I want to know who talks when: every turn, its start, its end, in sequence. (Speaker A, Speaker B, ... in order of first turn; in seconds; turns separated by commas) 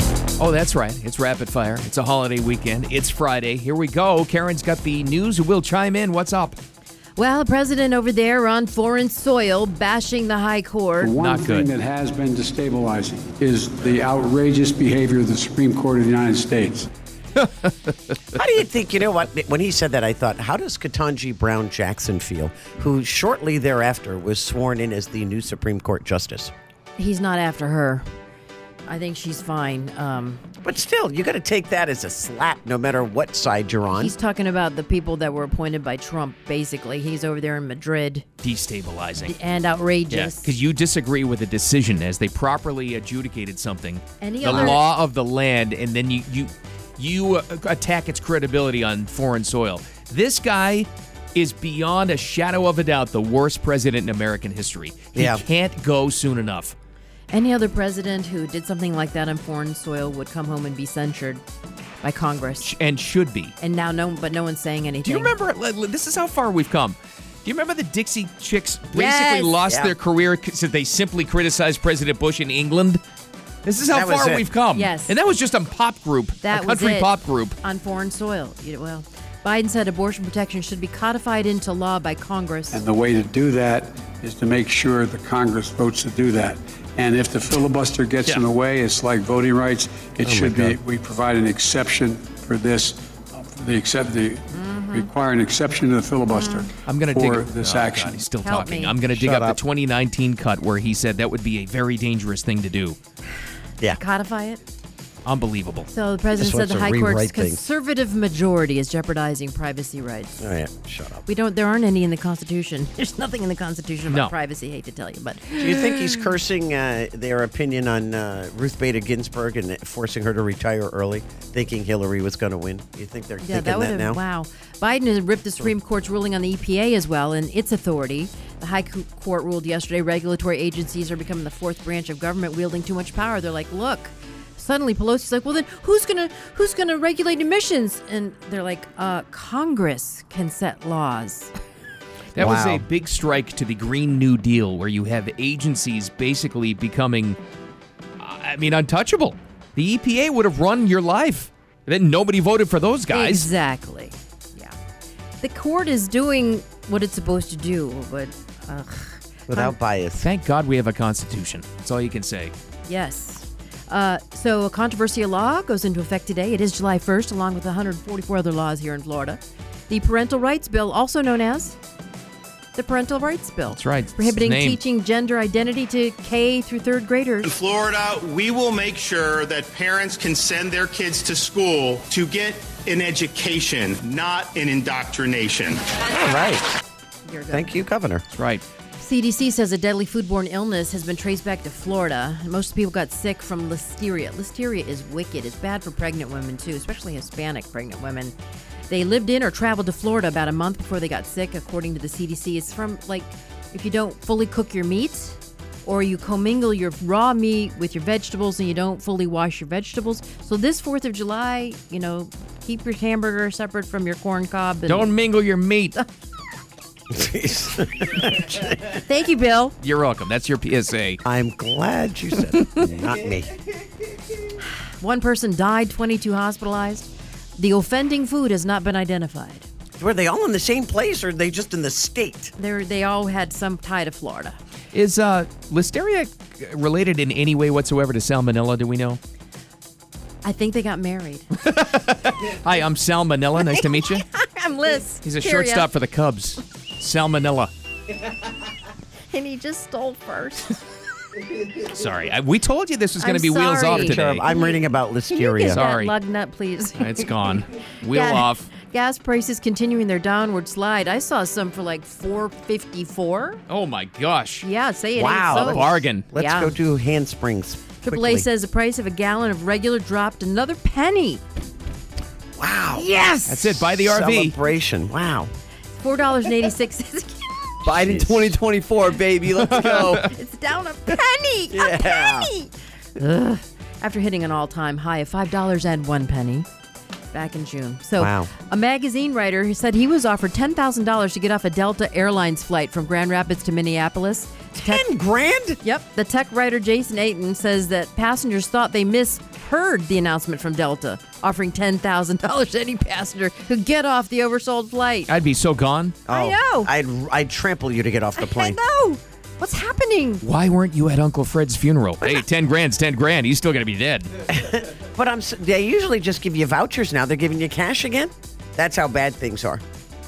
Speaker A: 0.4-6.6, Speaker B: 7.2-11.2, Speaker C: 11.0-16.9, Speaker A: 11.1-11.7, Speaker A: 17.4-17.7, Speaker D: 18.3-26.5, Speaker B: 27.0-28.0, Speaker B: 28.9-30.4, Speaker D: 30.6-34.1, Speaker B: 33.9-38.3, Speaker A: 38.4-39.4, Speaker B: 39.2-40.5, Speaker A: 40.1-56.7, Speaker B: 44.2-44.8, Speaker D: 55.2-55.4, Speaker B: 57.3-61.4, Speaker B: 62.0-62.7, Speaker A: 62.6-63.5, Speaker B: 63.6-65.3, Speaker A: 65.0-73.0, Speaker B: 68.9-69.6, Speaker D: 69.7-70.0, Speaker A: 73.7-77.6, Speaker D: 73.9-74.5, Speaker B: 74.7-75.2, Speaker B: 76.4-82.8, Speaker C: 82.7-98.2, Speaker D: 90.2-90.8, Speaker B: 94.5-95.1, Speaker B: 96.3-96.7, Speaker A: 96.8-103.0, Speaker B: 98.4-99.0, Speaker D: 99.1-99.6, Speaker B: 104.0-104.6, Speaker A: 105.3-105.9, Speaker B: 105.9-110.5, Speaker D: 106.3-107.6, Speaker D: 110.4-111.2, Speaker B: 111.3-116.2, Speaker D: 115.5-124.2, Speaker B: 123.4-141.5, Speaker A: 142.3-147.4, Speaker D: 142.4-142.8, Speaker A: 148.2-153.5, Speaker B: 153.1-154.8, Speaker B: 155.4-159.8, Speaker D: 159.5-160.3, Speaker A: 160.2-162.5, Speaker B: 162.8-171.8, Speaker B: 172.8-177.5, Speaker A: 173.7-174.8, Speaker E: 177.4-185.8, Speaker D: 186.1-186.7, Speaker B: 187.3-187.8, Speaker D: 187.5-188.2, Speaker A: 188.3-188.6, Speaker B: 189.0-198.3, Speaker B: 198.9-215.1, Speaker A: 214.9-215.9, Speaker D: 217.1-218.8, Speaker B: 218.9-219.7, Speaker A: 219.8-221.2, Speaker D: 221.2-223.5, Speaker B: 225.0-229.7, Speaker D: 230.0-232.5, Speaker B: 232.6-234.6, Speaker A: 234.9-239.2, Speaker B: 240.4-241.5, Speaker A: 241.6-244.3, Speaker B: 243.6-245.9, Speaker A: 245.2-247.7, Speaker B: 249.3-250.8, Speaker A: 251.8-254.4, Speaker B: 253.2-257.3, Speaker D: 253.9-255.8, Speaker A: 255.7-256.1, Speaker A: 257.0-258.7, Speaker B: 258.1-263.6, Speaker A: 263.7-264.6, Speaker B: 264.6-266.8, Speaker D: 265.2-268.5, Speaker A: 265.5-266.2, Speaker B: 268.0-271.4, Speaker D: 272.6-273.1, Speaker B: 272.9-273.7, Speaker A: 273.5-274.6, Speaker D: 273.9-275.5, Speaker B: 275.9-277.8, Speaker F: 277.9-280.3, Speaker D: 277.9-278.5, Speaker B: 279.7-286.7, Speaker D: 281.7-282.5, Speaker B: 287.3-295.1, Speaker D: 288.2-288.5, Speaker D: 294.7-295.8, Speaker B: 295.8-305.3, Speaker A: 305.3-306.2, Speaker D: 306.3-308.8, Speaker B: 306.3-306.9, Speaker B: 308.4-310.4, Speaker A: 310.4-314.3, Speaker D: 314.5-319.8